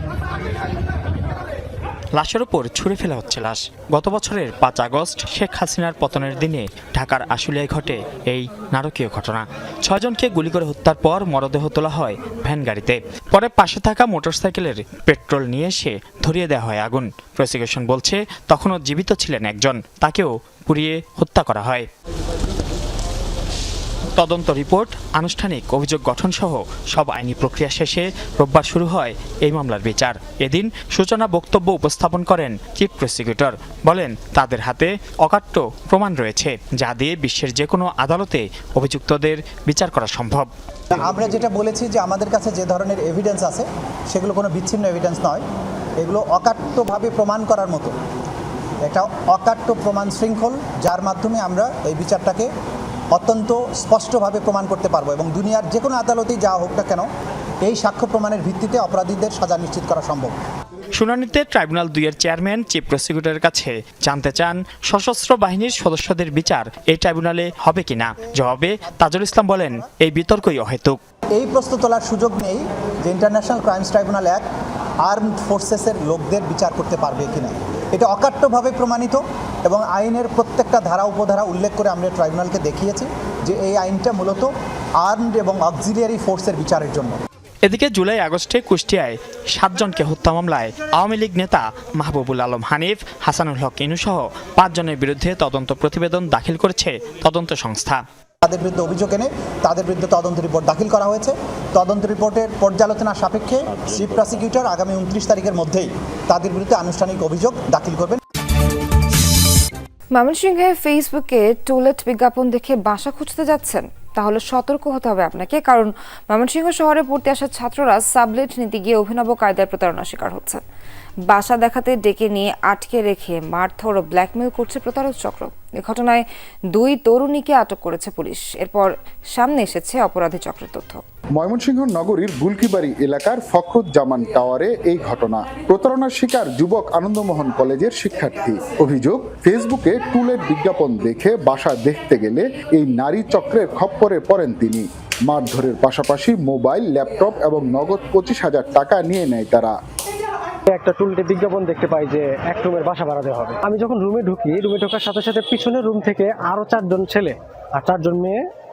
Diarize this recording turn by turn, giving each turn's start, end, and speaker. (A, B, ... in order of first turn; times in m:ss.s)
0:02.2-0:21.9 A
0:24.2-0:40.5 A
0:40.9-0:45.4 B
0:46.0-0:47.9 B
0:48.9-0:52.5 B
0:53.1-0:57.1 B
0:57.6-1:00.4 B
1:01.0-1:11.0 A
1:11.3-1:14.4 B
1:15.0-1:27.2 B
1:27.6-1:38.0 A
1:38.4-1:48.2 B
1:50.2-2:00.6 C
2:01.3-2:11.0 C
2:11.4-2:29.7 D
2:30.7-2:38.4 E